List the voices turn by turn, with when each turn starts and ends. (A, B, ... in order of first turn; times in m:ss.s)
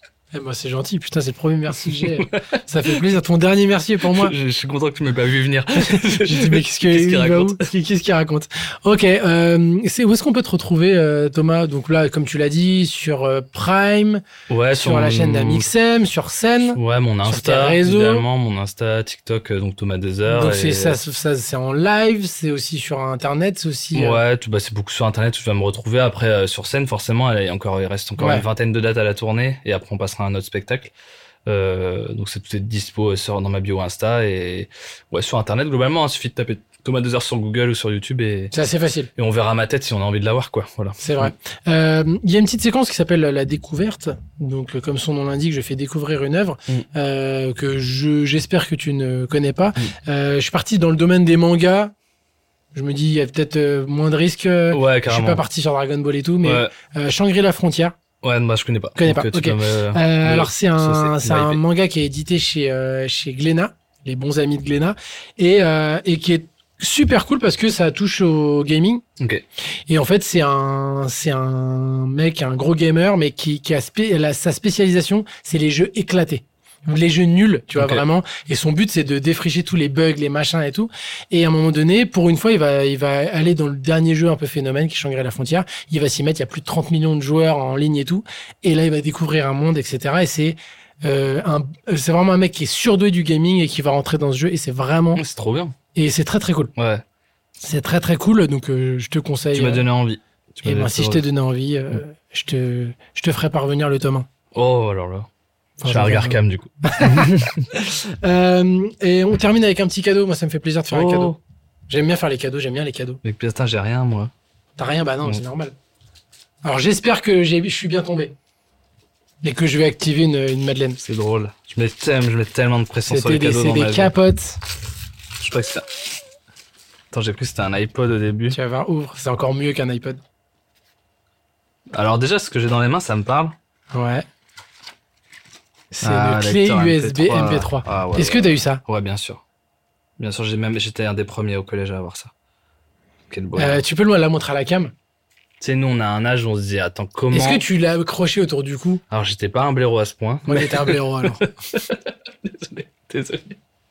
0:00.3-0:04.3 A
0:01.9-0:02.9 B
0:04.0-0:07.6 B
0:05.7-0:14.2 A
0:14.5-0:15.7 B
0:14.8-0:18.2 A
0:16.7-0:21.0 B
0:20.3-0:24.2 A
0:23.9-0:30.9 B
0:28.2-0:28.4 A
0:31.4-0:38.5 B
0:38.5-0:39.1 A
0:39.2-0:41.3 B
0:41.0-0:51.9 A
0:52.7-0:58.0 A
0:54.7-0:55.4 B
0:56.4-0:56.7 B
0:58.2-1:01.6 B
0:59.0-1:09.0 A
1:09.2-1:09.4 B
1:09.9-1:35.2 A
1:17.8-1:18.0 B
1:35.2-1:35.7 B
1:35.9-1:36.7 A
1:36.8-1:37.0 B
1:37.6-1:39.8 A
1:39.5-1:41.2 B
1:40.6-1:44.2 A
1:44.5-1:45.3 B
1:45.8-1:51.3 A
1:45.8-1:47.6 B
1:50.9-1:51.4 B
1:51.9-1:53.2 A
1:53.2-1:54.3 B
1:54.8-1:55.7 A
1:56.6-1:58.3 A
1:59.4-2:01.0 A
2:01.0-2:04.1 B
2:03.1-2:04.6 A
2:05.4-2:06.0 B
2:07.1-2:08.6 B
2:08.5-2:10.2 A
2:11.9-2:13.5 B
2:13.9-2:14.2 A
2:15.9-2:18.8 A
2:16.0-2:19.4 B
2:20.2-2:22.3 B
2:23.3-2:23.8 B
2:23.6-2:24.9 A
2:25.6-2:27.6 B
2:27.3-2:29.0 A
2:29.1-2:33.6 B
2:30.4-2:31.4 A